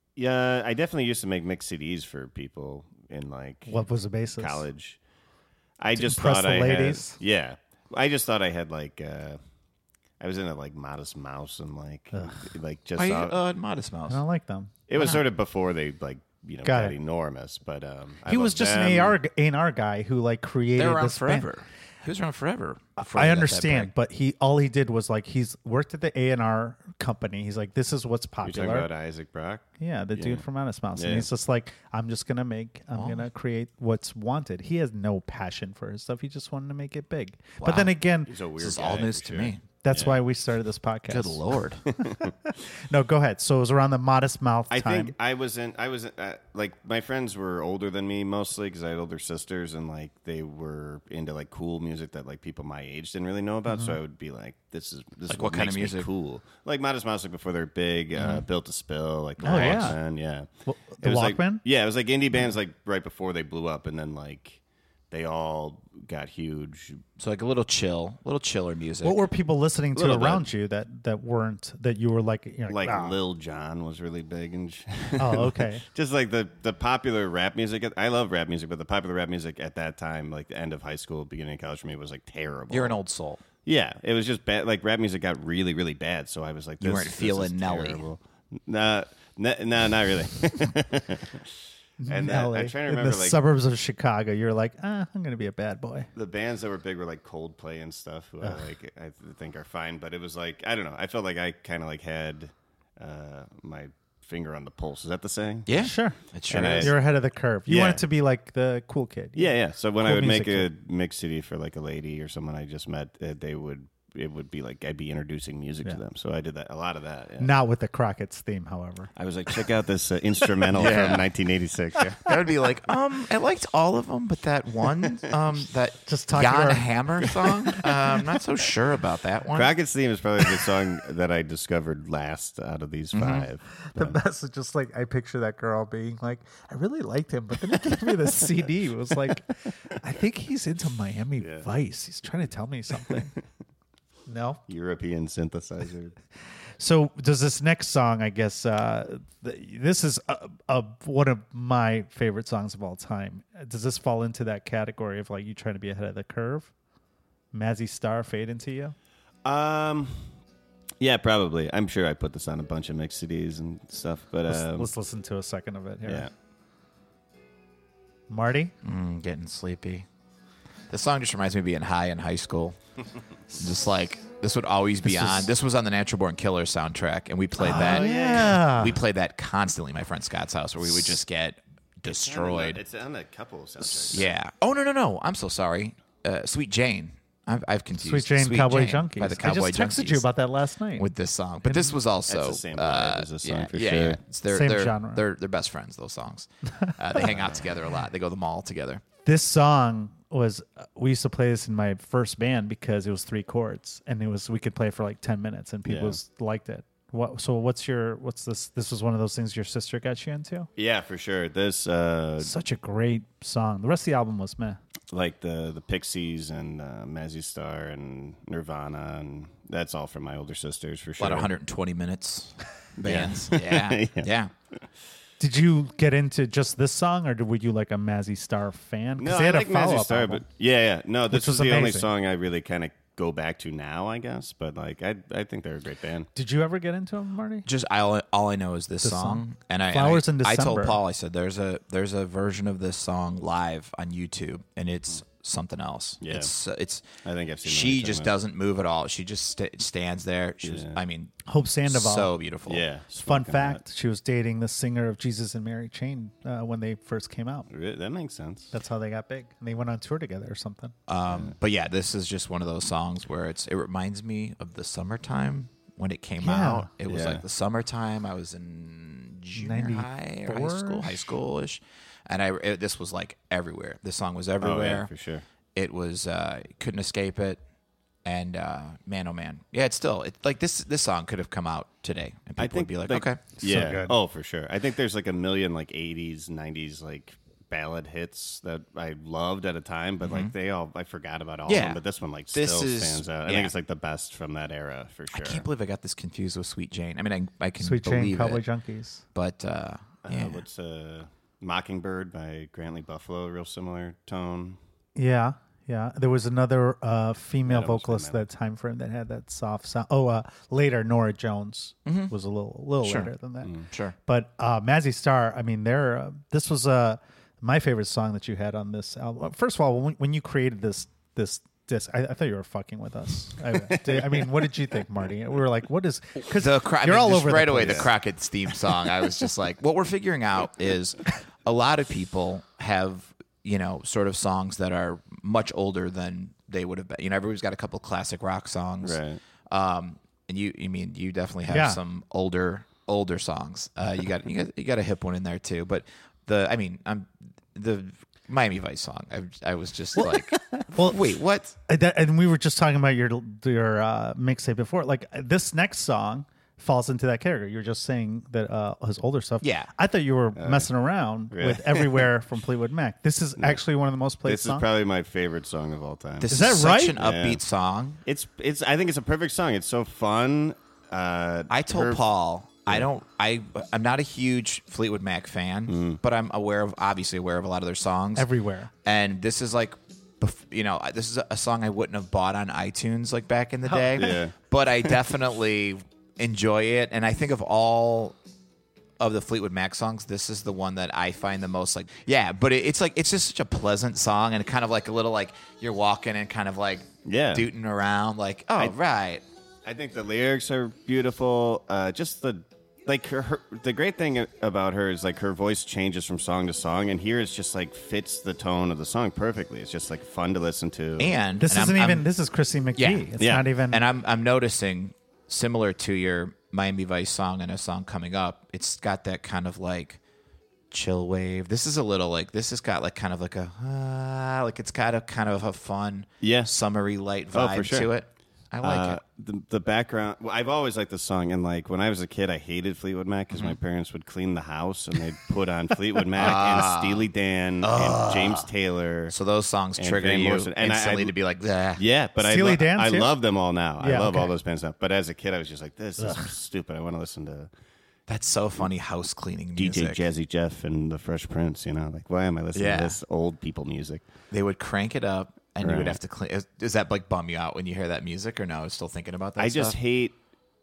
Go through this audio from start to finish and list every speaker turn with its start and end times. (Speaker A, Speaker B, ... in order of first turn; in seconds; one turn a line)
Speaker A: 0.2-5.0
Speaker B: 3.7-4.6
Speaker A: 5.8-9.4
Speaker B: 6.0-7.2
Speaker A: 10.2-13.4
Speaker B: 12.1-12.5
Speaker C: 13.0-14.2
Speaker B: 14.1-14.7
Speaker A: 14.9-19.2
Speaker B: 16.6-17.0
Speaker B: 18.3-21.5
Speaker C: 20.8-23.9
Speaker B: 23.0-28.9
Speaker A: 28.4-30.4
Speaker B: 29.8-38.3
Speaker A: 30.9-31.3
Speaker C: 33.0-33.3
Speaker C: 37.6-38.0
Speaker A: 38.3-40.2
Speaker C: 38.6-39.6
Speaker B: 39.8-41.5
Speaker C: 41.1-41.8
Speaker A: 42.0-42.3
Speaker B: 42.0-45.1
Speaker A: 44.7-60.5
Speaker B: 53.7-54.0
Speaker C: 55.3-56.1
Speaker C: 58.2-58.4
Speaker B: 59.4-60.0
Speaker C: 59.6-59.9
Speaker B: 60.7-61.6
Speaker A: 61.0-67.0
Speaker C: 67.2-69.2
Speaker B: 69.0-73.2
Speaker A: 70.0-70.5
Speaker A: 72.7-83.0
Speaker B: 75.2-75.8
Speaker C: 82.7-83.4
Speaker A: 83.6-91.5
Speaker C: 86.8-88.0
Speaker B: 92.0-96.1
Speaker A: 92.0-93.4
Speaker A: 96.2-105.7
Speaker C: 105.7-107.0
Speaker B: 105.7-110.7
Speaker A: 106.5-107.0
Speaker A: 107.7-108.0
Speaker A: 109.4-117.5
Speaker B: 117.4-119.1
Speaker A: 119.2-122.3
Speaker C: 120.7-121.3
Speaker C: 122.2-129.7
Speaker B: 126.1-126.9
Speaker A: 129.5-134.2
Speaker C: 133.1-133.5
Speaker B: 133.8-143.3
Speaker A: 141.4-141.7
Speaker B: 144.3-144.6
Speaker A: 144.7-146.2
Speaker B: 146.8-156.7
Speaker B: 157.5-158.9
Speaker A: 159.4-160.3
Speaker A: 161.0-164.9
Speaker B: 164.5-166.3
Speaker A: 166.1-166.3
Speaker B: 168.3-168.7
Speaker C: 168.8-170.1
Speaker C: 170.9-172.8
Speaker C: 173.6-182.8
Speaker B: 175.1-175.5
Speaker B: 177.6-179.0
Speaker A: 177.6-178.7
Speaker A: 182.1-184.3
Speaker C: 184.1-190.3
Speaker B: 188.0-191.1
Speaker C: 191.0-199.0
Speaker B: 191.7-191.9
Speaker A: 192.3-194.2
Speaker B: 194.5-195.2
Speaker A: 197.2-197.6
Speaker B: 199.2-210.7
Speaker A: 205.8-206.2
Speaker A: 210.8-212.5
Speaker B: 212.4-214.8
Speaker A: 215.1-221.5
Speaker C: 221.2-224.5
Speaker A: 223.0-224.3
Speaker B: 225.4-230.4
Speaker A: 229.2-236.3
Speaker B: 231.3-232.1
Speaker B: 236.3-237.7
Speaker C: 237.7-247.1
Speaker B: 239.0-241.0
Speaker A: 246.2-246.5
Speaker A: 247.2-248.3
Speaker C: 247.6-251.4
Speaker A: 250.6-251.0
Speaker B: 251.5-252.3
Speaker C: 251.9-252.8
Speaker A: 252.7-253.8
Speaker B: 253.2-257.7
Speaker A: 257.7-258.7
Speaker B: 258.7-260.9
Speaker C: 261.1-275.1
Speaker A: 261.3-261.6
Speaker B: 266.4-266.9
Speaker A: 267.1-267.4
Speaker B: 269.6-271.4
Speaker A: 274.6-275.4
Speaker C: 275.8-277.6
Speaker C: 278.2-283.4
Speaker A: 282.6-295.7
Speaker B: 283.6-284.2
Speaker C: 290.2-290.5
Speaker C: 291.7-293.7
Speaker C: 295.3-298.6
Speaker B: 297.8-299.2
Speaker C: 299.3-300.6
Speaker A: 300.2-304.8
Speaker B: 305.2-328.1
Speaker A: 307.6-308.4
Speaker C: 312.1-312.3
Speaker C: 313.0-314.1
Speaker A: 323.8-324.7
Speaker C: 326.5-351.8
Speaker A: 327.8-328.1
Speaker A: 339.0-339.4
Speaker B: 341.7-342.0
Speaker B: 350.9-351.2
Speaker B: 351.9-364.9
Speaker C: 359.6-359.9
Speaker A: 360.6-360.9
Speaker A: 361.5-362.3
Speaker A: 364.4-366.5
Speaker C: 366.4-368.2
Speaker B: 366.5-367.2
Speaker A: 367.1-367.6
Speaker A: 368.2-372.2
Speaker C: 371.7-378.5
Speaker A: 375.9-376.2
Speaker B: 378.4-378.9
Speaker C: 379.0-388.4
Speaker B: 383.9-384.4
Speaker A: 384.2-384.5
Speaker C: 389.2-399.4
Speaker A: 397.2-397.7
Speaker A: 399.9-411.4
Speaker C: 411.2-412.3
Speaker B: 411.6-414.0
Speaker C: 413.0-413.3
Speaker A: 413.4-413.7
Speaker C: 413.9-420.2
Speaker C: 420.9-429.2
Speaker A: 426.4-426.7
Speaker A: 427.5-428.1
Speaker A: 428.8-439.3
Speaker C: 436.4-437.3
Speaker C: 437.8-438.7
Speaker C: 439.3-442.0
Speaker A: 440.0-441.4
Speaker A: 442.0-447.7
Speaker B: 442.4-443.3
Speaker B: 444.0-444.5
Speaker B: 446.2-446.5
Speaker C: 448.3-450.2
Speaker A: 449.8-454.3
Speaker C: 452.8-453.2
Speaker C: 454.5-460.0
Speaker A: 455.8-456.2
Speaker A: 459.6-460.4